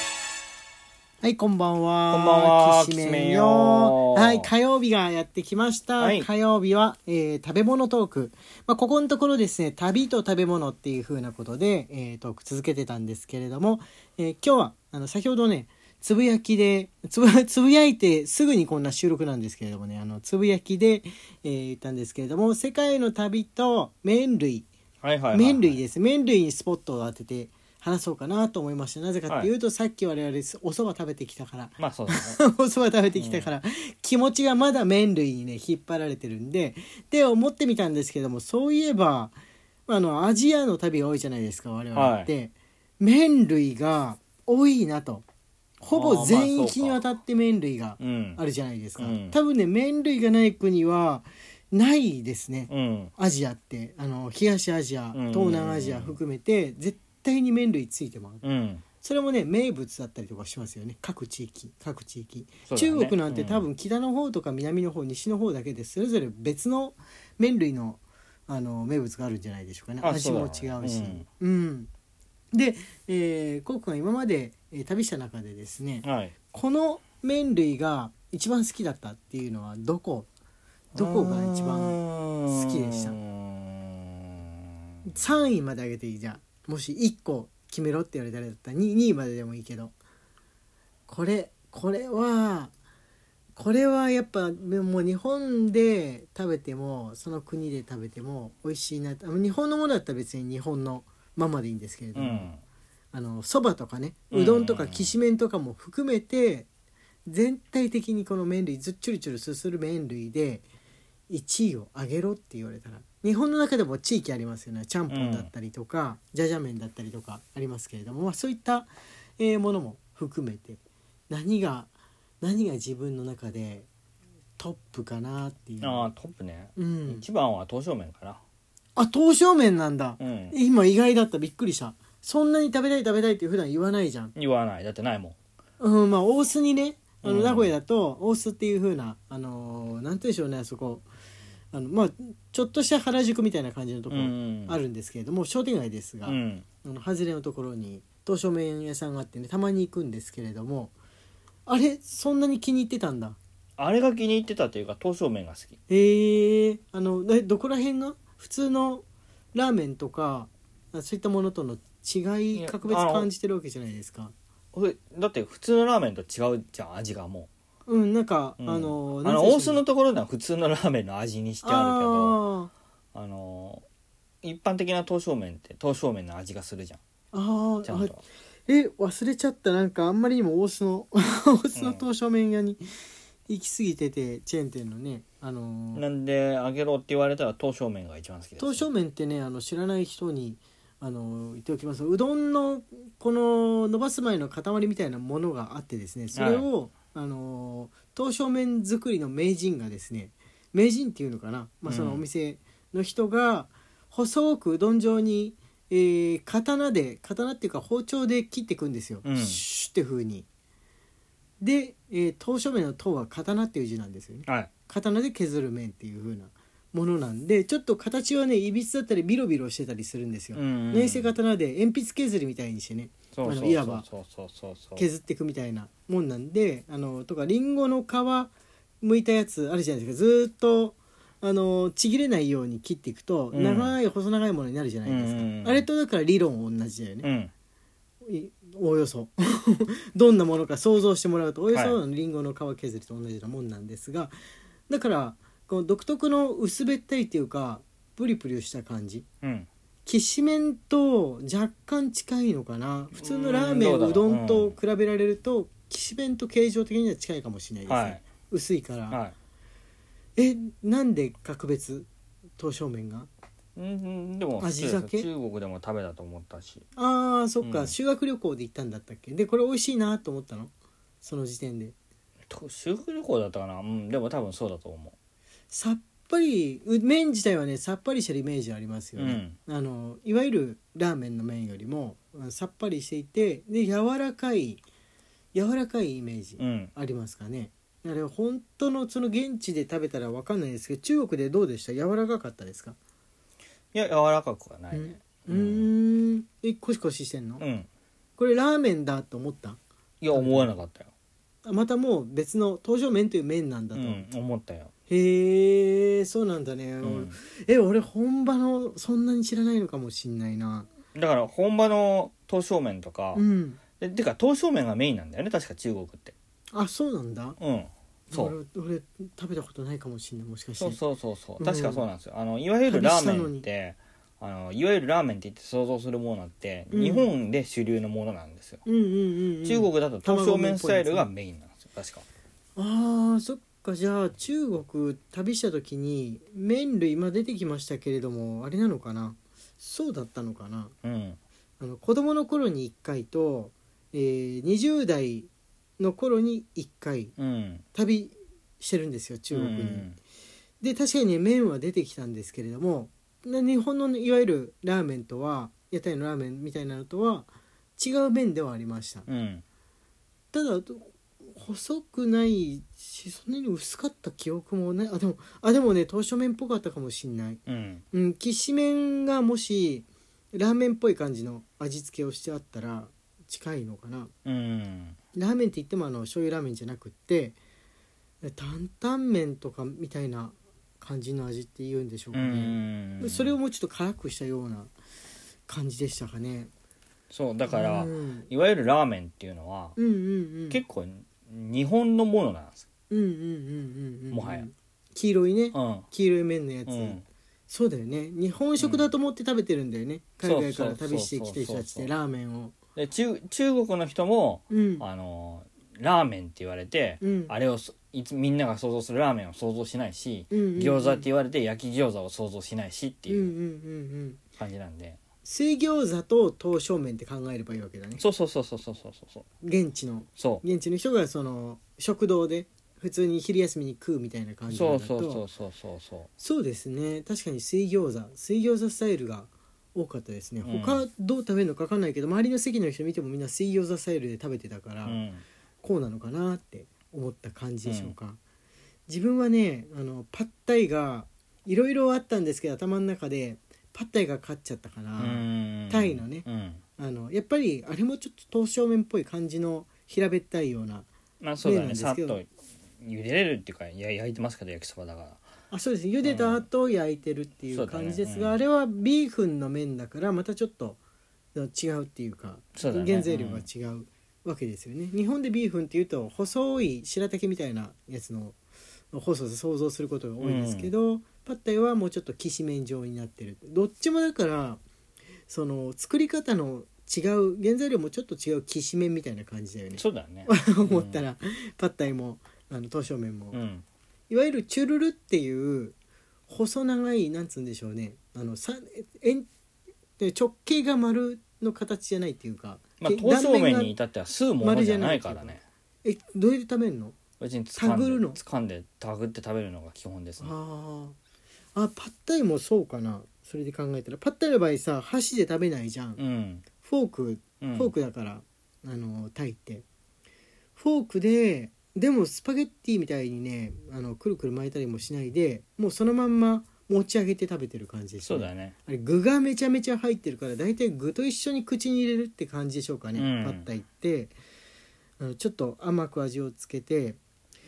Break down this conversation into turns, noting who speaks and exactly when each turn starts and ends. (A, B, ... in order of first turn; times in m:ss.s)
0:01.2-0:24.7 A
0:02.1-0:04.5 B
0:06.0-0:06.3 B
0:25.0-0:25.8 B
0:25.3-0:39.3 A
0:31.8-0:32.4 B
0:33.2-0:33.5 B
0:39.9-0:45.2 A
0:41.9-0:42.3 B
0:45.8-0:58.4 A
0:45.9-0:47.0 B
0:48.0-0:48.4 B
0:49.0-0:49.4 B
0:52.7-0:53.1 B
0:55.1-0:56.2 B
0:58.4-0:58.8 B
0:59.0-1:11.9 A
1:02.7-1:03.6 B
1:10.0-1:11.2 B
1:12.5-1:20.3 A
1:16.0-1:16.3 B
1:20.9-1:25.0 B
1:20.9-1:23.2 A
1:25.0-1:29.9 A
1:31.1-1:32.7 A
1:33.5-1:42.5 A
1:42.1-1:42.6 B
1:43.1-1:46.7 A
1:44.3-1:45.1 B
1:47.3-1:50.6 A
1:51.3-2:01.9 A
1:55.1-1:55.5 B
2:02.4-2:03.9 A
2:04.6-2:06.1 A
2:05.8-2:08.4 B
2:06.8-2:07.2 A
2:09.0-2:14.3 A
2:10.2-2:10.6 B
2:14.3-2:15.4 B
2:15.8-2:21.0 A
2:17.2-2:17.7 B
2:21.7-2:30.9 A
2:24.1-2:24.8 B
2:26.2-2:26.6 B
2:31.6-2:33.4 A
2:33.8-2:35.8 B
2:35.9-2:44.3 A
2:42.5-2:43.3 B
2:44.7-2:47.5 B
2:47.9-2:49.8 A
2:48.6-2:52.4 B
2:51.6-2:52.7 A
2:53.1-2:53.8 B
2:54.4-2:57.0 B
2:57.3-2:58.1 A
2:57.8-2:58.2 B
2:58.7-3:02.8 A
3:01.7-3:02.0 B
3:03.5-3:06.0 A
3:05.9-3:08.9 B
3:08.6-3:30.4 A
3:16.3-3:16.6 B
3:21.8-3:22.2 B
3:29.2-3:29.6 B
3:31.6-3:44.1 A
3:40.5-3:41.3 B
3:43.3-3:45.1 B
3:45.0-3:57.3 A
3:53.5-3:53.9 B
3:55.0-3:55.8 B
3:57.2-3:57.5 B
3:58.2-4:04.4 A
4:01.7-4:02.0 B
4:04.9-4:09.2 A
4:09.4-4:09.7 B
4:10.0-4:19.2 A
4:13.1-4:14.8 B
4:17.9-4:18.2 B
4:19.1-4:19.3 B
4:20.4-4:22.1 A
4:22.6-4:23.3 A
4:23.8-4:26.8 B
4:24.6-4:25.3 A
4:27.0-4:31.9 A
4:27.6-4:27.9 B
4:32.5-4:35.1 B
4:35.7-4:44.8 A
4:39.2-4:39.6 B
4:45.5-4:53.0 A
4:46.6-4:46.9 B
4:53.9-4:55.9 B
4:54.9-4:57.6 A
4:57.6-4:57.9 B
4:58.4-4:59.8 A
5:00.2-5:01.1 B
5:00.3-5:00.7 A
5:01.6-5:04.3 A
5:03.9-5:04.9 B
5:05.1-5:10.9 A
5:07.0-5:07.4 B
5:11.1-5:13.4 B
5:13.3-5:13.8 A
5:14.0-5:16.3 B
5:16.7-5:17.6 A
5:17.6-5:18.5 B
5:18.3-5:21.0 A
5:20.8-5:28.8 B
5:21.6-5:22.1 A
5:22.9-5:23.6 A
5:26.9-5:27.3 A
5:28.8-5:31.3 A
5:29.6-5:32.2 B
5:32.8-5:40.9 A
5:41.0-5:41.4 B
5:41.8-5:47.3 A
5:47.4-5:47.8 B
5:47.9-5:50.1 A
5:49.5-5:50.2 B
5:50.8-5:59.3 A
5:59.3-5:59.6 B
6:00.5-6:07.6 A
6:07.7-6:08.0 B
6:08.1-6:14.3 A
6:14.4-6:15.2 B
6:15.3-6:17.6 A
6:18.4-6:24.9 A
6:22.3-6:23.5 B
6:25.7-6:26.7 A
6:27.3-6:30.0 B
6:27.7-6:28.5 A
6:30.0-6:30.8 A
6:30.7-6:32.8 B
6:33.1-6:42.8 A
6:34.3-6:34.6 B
6:35.7-6:36.1 B
6:36.8-6:37.2 B
6:38.8-6:39.1 B
6:40.4-6:42.1 B
6:43.0-6:53.5 B
6:44.7-6:45.0 A
6:47.2-6:47.5 A
6:50.5-6:51.3 A
6:53.3-6:54.4 A
6:54.6-6:55.2 B
6:55.4-6:58.2 A
6:58.2-6:59.4 B
6:59.6-7:05.4 A
7:00.4-7:00.6 B
7:04.7-7:06.3 B
7:06.4-7:15.2 A
7:10.6-7:11.0 B
7:15.0-7:15.4 B
7:15.8-7:18.4 A
7:17.8-7:18.1 B
7:19.1-7:26.4 A
7:25.2-7:26.8 B
7:27.0-7:31.1 A
7:31.4-7:32.5 B
7:31.6-7:32.4 A
7:33.0-7:35.4 B
7:35.7-7:41.0 A
7:36.2-7:36.6 B
7:37.7-7:38.6 B
7:41.5-7:48.6 A
7:42.8-7:43.7 B
7:49.1-7:54.8 A
7:50.4-7:50.9 B
7:55.5-8:03.6 A
7:59.9-8:01.2 B
8:03.5-8:03.8 B
8:04.3-8:05.9 A
8:06.5-8:09.5 A
8:10.2-8:14.0 A
8:13.0-8:15.6 B
8:14.6-8:17.2 A
8:17.4-8:20.5 B
8:17.8-8:18.4 A
8:20.4-8:21.2 A
8:21.7-8:26.2 A
8:26.2-8:26.6 B
8:26.8-8:29.8 A
8:27.6-8:27.9 B
8:30.8-8:44.3 A
8:38.2-8:38.7 B
8:43.2-8:43.6 B
8:45.2-8:47.2 A